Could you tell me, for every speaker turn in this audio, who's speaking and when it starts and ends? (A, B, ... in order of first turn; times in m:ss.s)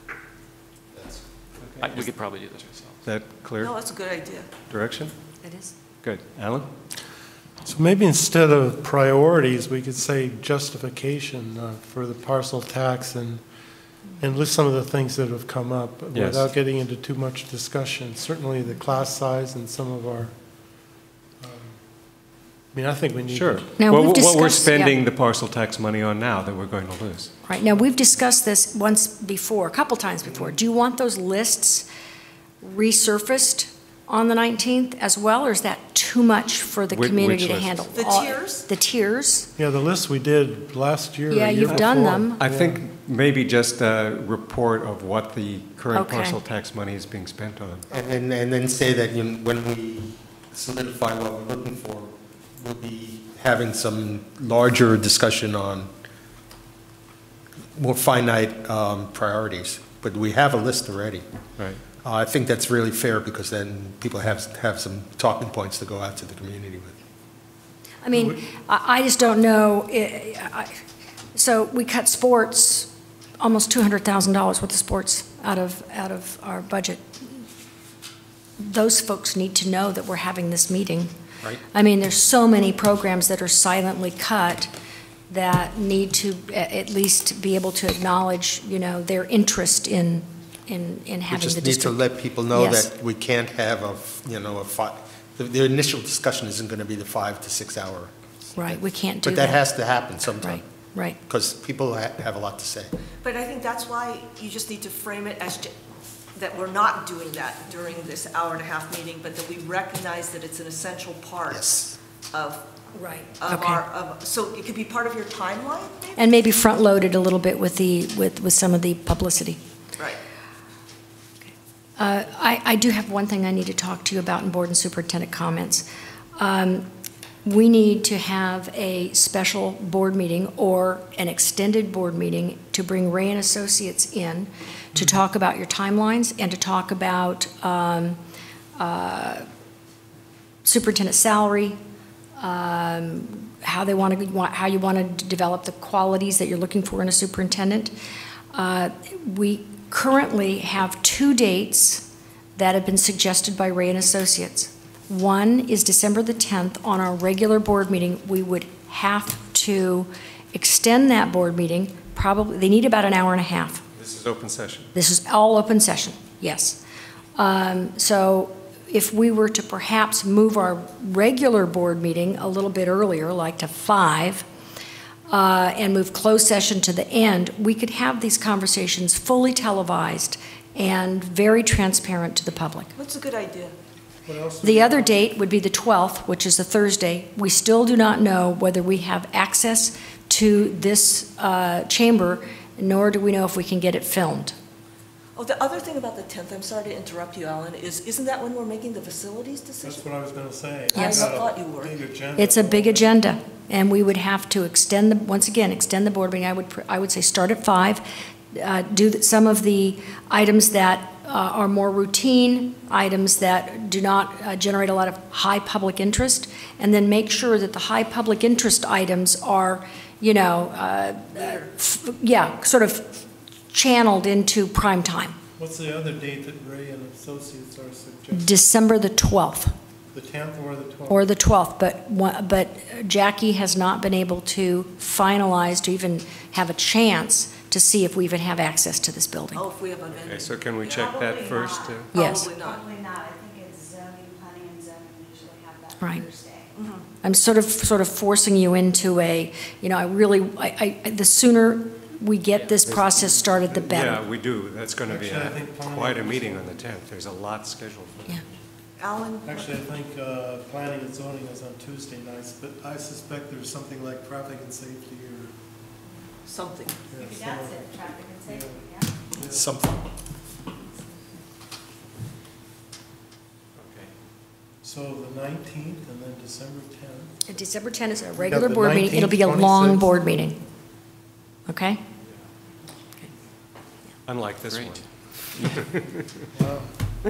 0:01.6-0:02.1 A
0:01.8-0:03.0 B
0:03.0-0:03.8 A
0:03.6-0:04.5 C
0:04.7-0:05.1 A
0:05.4-0:05.7 D
0:06.0-0:06.7 A
0:07.6-0:13.4 E
0:14.2-0:20.3 E
0:16.1-0:16.5 A
0:21.4-0:21.8 E
0:22.7-0:23.7 E
0:23.3-0:27.3 A
0:23.8-0:25.0 D
0:27.4-0:31.9 D
0:32.6-0:39.5 D
0:36.9-0:37.9 A
0:37.9-0:38.7 C
0:39.6-0:42.8 E
0:41.3-0:42.4 D
0:41.7-0:47.9 A
0:45.9-0:46.4 D
0:47.9-0:55.9 F
0:57.8-1:01.2 F
1:02.0-1:07.0 F
1:08.0-1:10.7 D
1:11.4-1:12.9 D
1:13.4-1:17.4 D
1:18.6-1:21.1 D
1:21.6-1:24.7 D
1:25.3-1:32.9 D
1:31.3-1:38.1 F
1:38.6-1:39.6 D
1:38.7-1:40.6 F
1:40.4-1:41.2 D
1:41.3-1:42.9 F
1:43.2-1:45.7 C
1:46.4-1:51.7 C
1:51.5-1:52.0 F
1:52.3-1:52.6 C
1:53.0-1:53.8 D
1:53.4-1:56.3 C
1:56.2-1:59.6 D
2:02.0-2:05.9 D
2:06.4-2:06.8 D
2:07.4-2:18.2 D
2:18.8-2:19.5 D
2:20.6-2:21.8 D
2:22.4-2:27.9 D
2:28.5-2:43.8 D
2:44.0-2:44.9 A
2:44.9-2:46.8 D
2:47.4-2:54.5 D
2:55.3-3:02.9 D
3:03.0-3:03.8 C
3:04.3-3:05.3 E
3:04.6-3:14.6 D
3:15.4-3:20.0 C
3:19.8-3:23.1 E
3:20.9-3:21.3 D
3:20.9-3:22.0 C
3:22.4-3:45.4 D
3:41.4-3:41.6 C
3:45.6-3:48.5 E
3:48.3-3:49.7 D
3:50.1-3:51.3 E
3:51.1-3:59.6 D
3:59.5-4:01.5 C
4:00.1-4:02.1 A
4:01.2-4:02.0 G
4:02.1-4:02.5 D
4:02.1-4:02.9 C
4:02.6-4:06.7 G
4:06.0-4:06.2 D
4:06.8-4:07.0 C
4:07.2-4:14.2 D
4:12.5-4:12.8 B
4:13.9-4:18.5 A
4:15.0-4:16.8 E
4:19.0-4:19.7 C
4:19.5-4:25.5 E
4:26.4-4:27.0 C
4:27.1-4:29.7 E
4:27.2-4:29.0 G
4:29.5-4:30.1 F
4:33.8-4:34.1 A
4:34.8-4:37.3 E
4:37.5-4:40.6 D
4:38.4-4:40.1 E
4:41.7-4:42.0 D
4:44.3-4:46.4 A
4:44.7-4:45.0 B
4:46.5-4:46.9 E